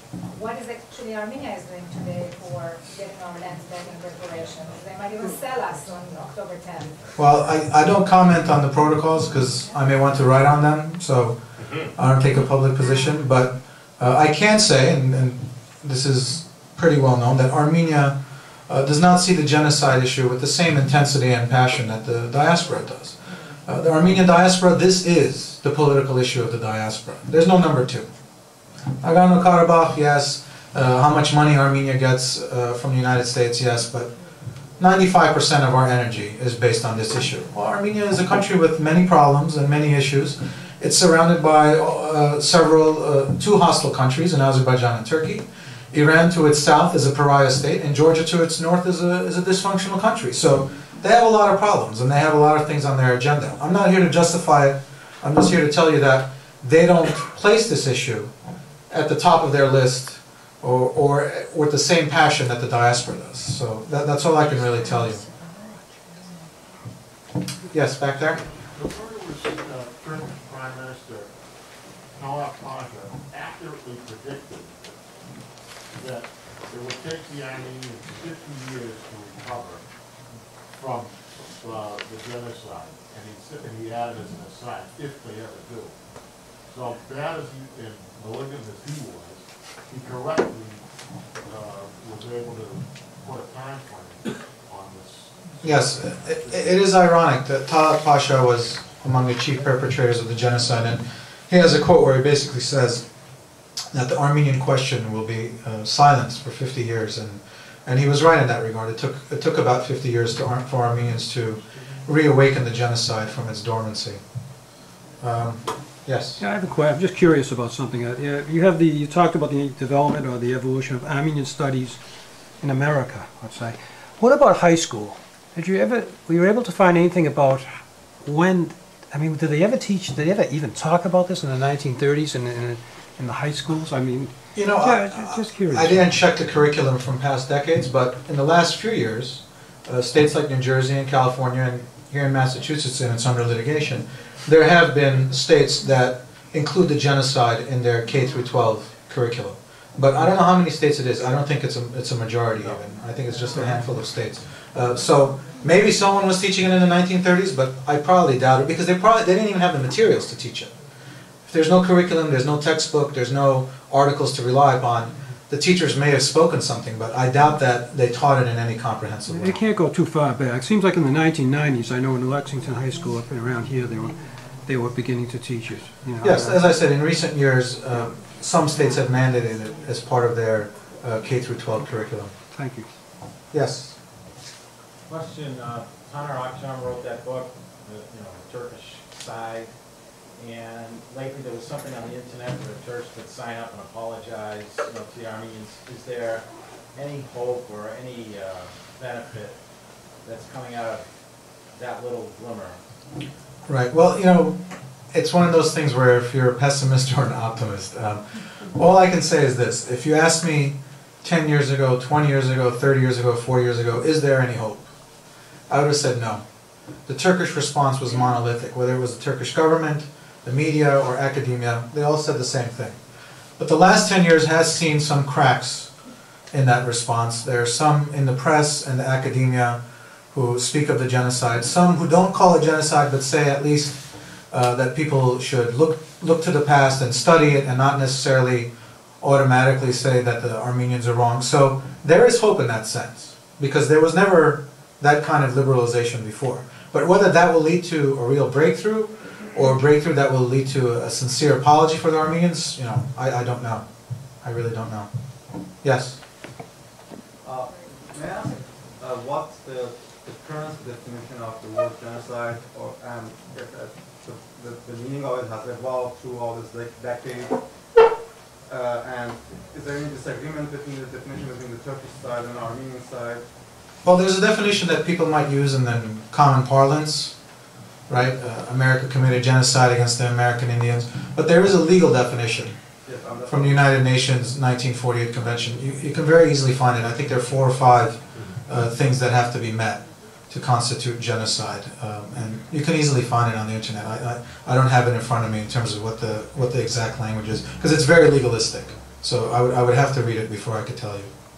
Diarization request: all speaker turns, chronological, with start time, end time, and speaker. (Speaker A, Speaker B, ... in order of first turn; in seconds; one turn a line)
Speaker A: 0.3-7.1
Speaker B: 7.2-28.1
Speaker B: 29.0-34.1
Speaker B: 34.8-58.3
Speaker B: 58.9-65.2
Speaker B: 67.7-68.4
Speaker C: 68.6-71.3
Speaker C: 72.2-75.0
Speaker C: 75.9-79.8
Speaker C: 80.8-85.9
Speaker C: 86.7-90.8
Speaker C: 91.4-96.8
Speaker B: 95.6-103.0
Speaker B: 103.9-114.2
Speaker B: 115.2-116.4
Speaker D: 116.4-122.0
Speaker D: 122.6-136.1
Speaker B: 134.6-160.7
Speaker B: 161.5-169.6
Speaker D: 169.3-176.6
Speaker B: 176.2-182.3
Speaker D: 182.5-182.9
Speaker B: 183.5-184.0
Speaker E: 185.1-189.7
Speaker E: 190.4-196.4
Speaker E: 196.9-199.6
Speaker E: 200.2-201.1
Speaker E: 201.7-202.8
Speaker B: 203.7-204.6
Speaker B: 205.1-214.9
Speaker B: 215.7-216.4
Speaker B: 217.1-223.0
Speaker B: 223.6-225.9
Speaker B: 226.5-229.8
Speaker B: 230.3-238.7
Speaker B: 239.2-253.9
Speaker B: 254.4-255.1
Speaker B: 255.8-256.2
Speaker F: 257.4-267.6
Speaker F: 268.7-273.4
Speaker B: 274.0-277.3
Speaker B: 278.1-282.8
Speaker F: 283.1-283.8
Speaker B: 283.5-301.3